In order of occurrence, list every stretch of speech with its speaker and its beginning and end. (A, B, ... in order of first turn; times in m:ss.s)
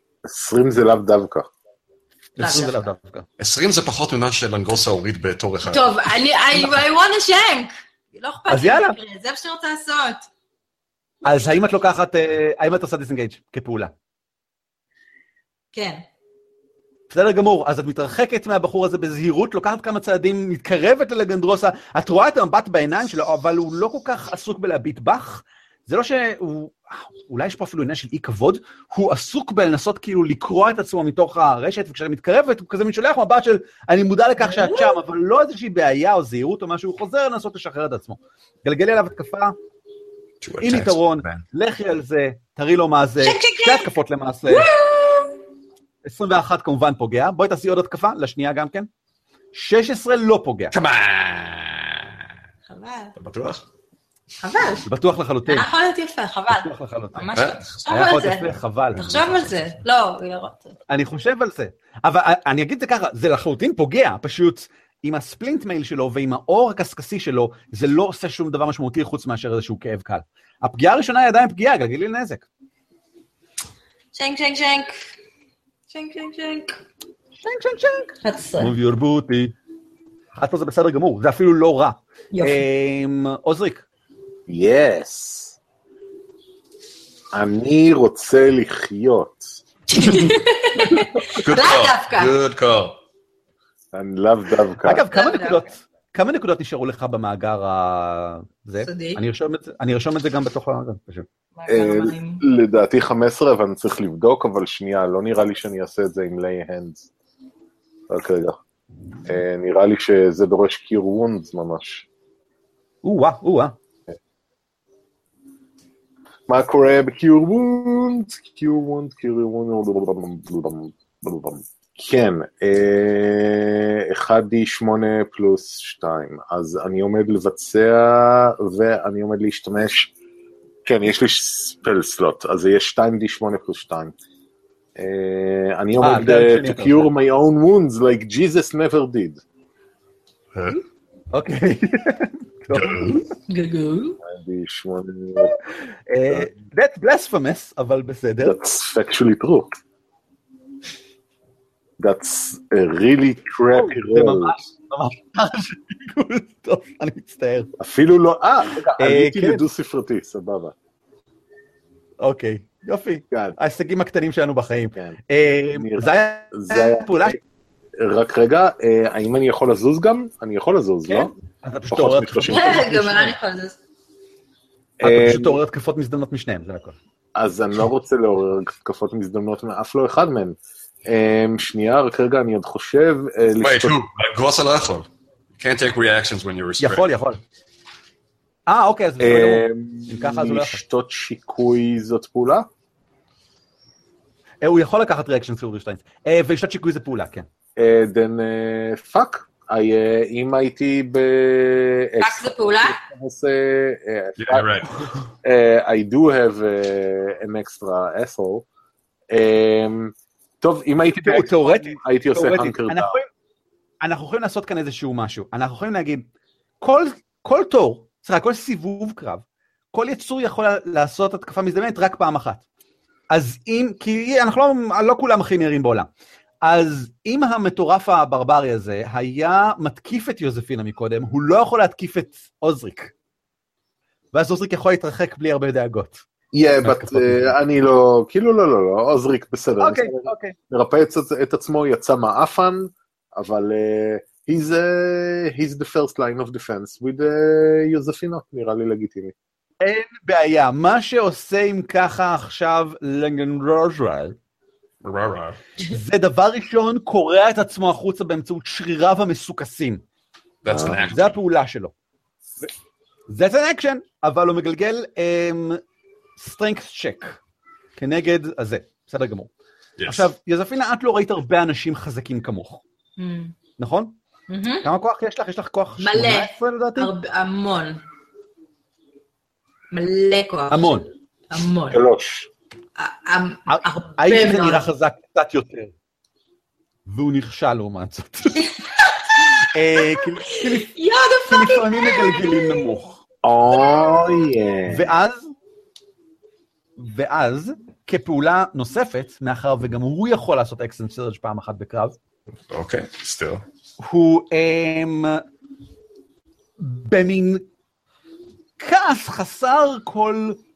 0:00.2-0:01.5 A
0:02.4-0:03.3 B
0:02.4-0:02.8 C
0:03.4-0:05.9 D
0:05.6-0:10.3 C
0:08.5-0:09.0 B
0:11.2-0:13.9 B
0:15.7-0:16.0 C
0:17.1-0:39.6 B
0:34.4-0:34.9 C
0:40.4-0:41.4 D
0:40.6-0:44.7 B
0:43.2-0:43.9 C
0:44.5-0:45.4 C
0:46.0-0:48.9 B
0:49.5-0:50.7 B
0:50.7-0:52.1 D
0:52.7-0:53.1 C
0:53.2-0:53.6 D
0:54.4-0:54.9 C
0:54.9-0:55.7 B
0:55.4-1:00.7 C
0:56.5-0:57.3 B
0:57.4-0:57.7 D
0:57.9-0:59.3 B
0:59.0-0:59.6 D
1:00.9-1:12.4 B
1:14.1-1:15.0 C
1:15.9-1:16.8 C
1:17.4-1:19.5 B
1:18.2-1:18.7 C
1:20.4-1:23.8 B
1:22.3-1:22.6 C
1:24.5-1:25.6 A
1:27.3-1:29.6 A
1:29.9-1:32.4 C
1:31.2-1:33.0 D
1:33.9-1:35.0 A
1:34.8-1:41.3 B
1:35.0-1:35.7 C
1:38.8-1:39.2 C
1:41.6-1:42.4 C
1:41.7-1:47.1 A
1:48.1-1:48.6 A
1:49.2-1:52.1 A
1:53.0-1:53.8 B
1:56.5-2:10.1 A
2:10.8-2:14.1 A
2:15.0-2:19.4 A
2:16.0-2:17.1 B
2:21.3-2:23.2 B
2:22.7-2:23.2 D
2:23.5-2:24.2 C
2:24.2-2:25.6 A
2:25.4-2:28.6 B
2:28.4-2:29.7 A
2:32.0-2:34.6 A
2:33.7-2:37.7 B
2:37.8-2:40.7 A
2:39.0-2:39.6 B
2:42.2-2:47.4 B
2:43.3-2:43.6 A
2:45.7-2:47.4 A
2:48.0-2:51.3 A
2:51.1-2:53.3 B
2:51.9-2:52.8 A
2:52.5-2:53.8 C
2:55.0-2:55.6 A
2:55.0-2:57.0 B
2:57.4-3:04.0 A
3:03.6-3:07.1 D
3:06.8-3:07.4 B
3:08.7-3:10.8 B
3:09.2-3:12.7 A
3:14.6-3:17.5 B
3:17.8-3:24.9 A
3:22.2-3:23.0 C
3:24.4-3:24.9 D
3:25.4-3:28.7 A
3:29.3-3:33.2 A
3:31.2-3:33.3 B
3:34.0-3:36.3 B
3:36.8-3:42.6 B
3:43.3-3:46.1 B
3:46.6-3:53.1 B
3:54.3-3:56.2 B
3:56.5-4:09.3 A
3:56.8-3:57.5 B
3:59.8-4:00.6 B
4:09.8-4:14.4 B
4:15.0-4:15.6 D
4:15.9-4:20.0 B
4:20.6-4:21.4 D
4:20.7-4:21.1 A
4:21.1-4:21.9 B
4:23.3-4:25.8 B
4:26.4-4:27.4 B
4:28.0-4:29.5 B
4:30.0-4:30.3 D
4:30.1-4:32.8 B
4:33.2-4:33.6 C
4:33.8-4:34.1 B
4:34.5-4:34.9 C
4:34.8-4:37.1 B
4:36.0-4:38.0 C
4:39.9-4:42.0 C
4:40.7-4:41.1 B
4:41.9-4:42.5 A
4:43.0-4:44.9 C
4:43.7-4:45.9 B
4:47.1-4:48.7 B
4:48.6-4:49.4 C
4:49.7-4:50.9 B
4:50.7-4:52.9 C
4:51.4-4:53.2 B
4:53.4-4:55.1 A
4:53.7-4:54.4 C
4:54.9-4:55.5 B
4:57.0-5:02.2 B
5:02.7-5:03.6 D
5:04.0-5:05.4 B
5:06.8-5:07.6 B
5:08.8-5:10.6 B